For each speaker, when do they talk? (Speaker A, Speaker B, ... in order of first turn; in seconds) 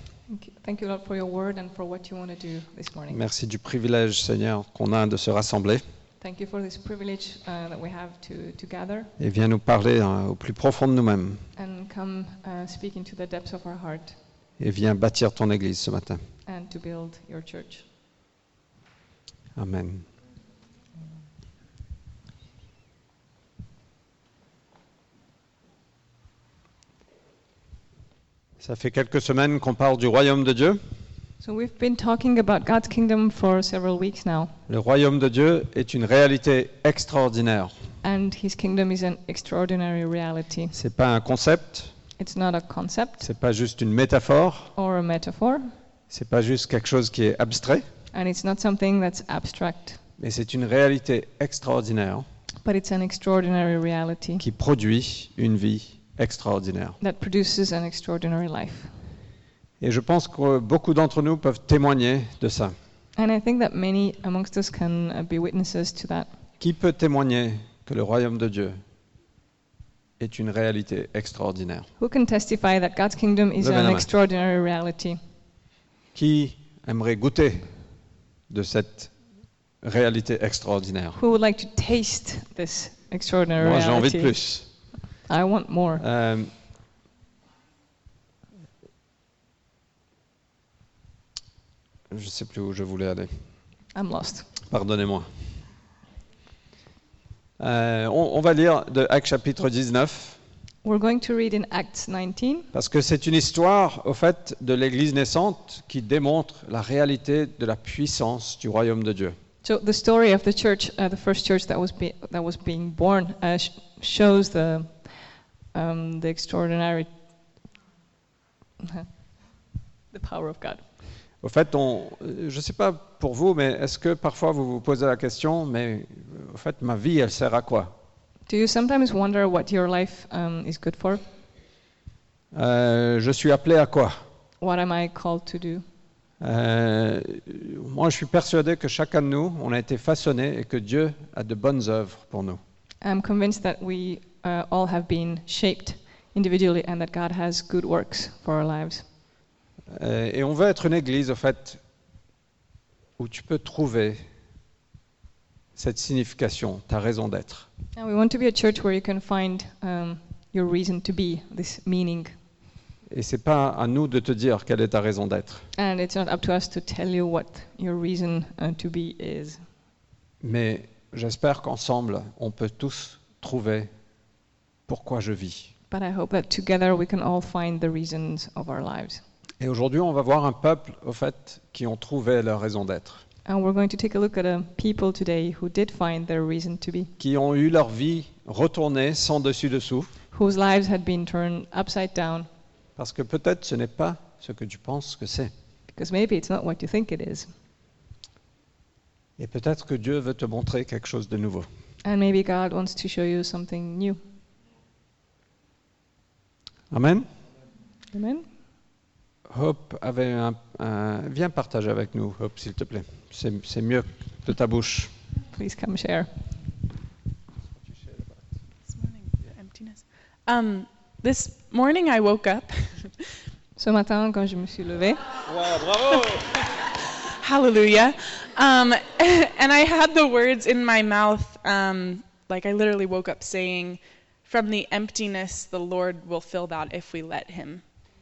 Speaker A: 0.3-3.2, 6.2-9.1, 11.6-14.2, 16.4-17.8, 31.4-34.5, 38.0-40.7, 42.2-43.3, 44.8-45.7, 48.1-50.0, 52.6-54.4, 57.0-58.9, 63.1-66.3, 72.0-75.2, 81.2-84.3, 85.2-86.0, 93.9-94.5, 100.8-102.7, 109.6-115.2, 115.7-117.1, 118.8-119.1, 120.1-120.8, 128.5-131.2, 134.6-135.8, 143.0-149.0, 157.9-162.3, 165.7-169.6, 175.9-179.2, 183.4-187.1, 190.3-192.5, 195.9-197.5, 202.0-204.2, 208.1-208.4, 215.5-216.3, 223.8-225.2
Speaker B: 3.1-5.8, 9.2-11.4, 14.6-16.2, 19.6-20.0, 28.6-30.8, 34.7-37.7, 40.7-41.9, 43.2-44.7, 46.1-47.8, 50.2-52.2, 54.4-57.0, 59.8-62.7, 66.6-68.8, 70.2-71.9, 73.6-74.1, 76.1-77.7, 78.5-79.1, 79.8-81.2, 83.6-84.7, 86.0-86.5, 92.1-93.3, 94.7-95.3, 97.6-100.4, 102.7-109.3, 121.4-127.9, 132.5-134.2, 136.4-142.6, 149.9-151.8, 153.2-154.2, 155.8-157.7, 163.1-165.7, 170.4-173.9, 174.9-175.7, 179.6-183.2, 187.2-190.1, 193.0-195.5, 199.4-201.7, 206.9-207.3, 209.5-215.1, 225.6-226.1
Speaker C: 218.9-223.1, 226.1-237.8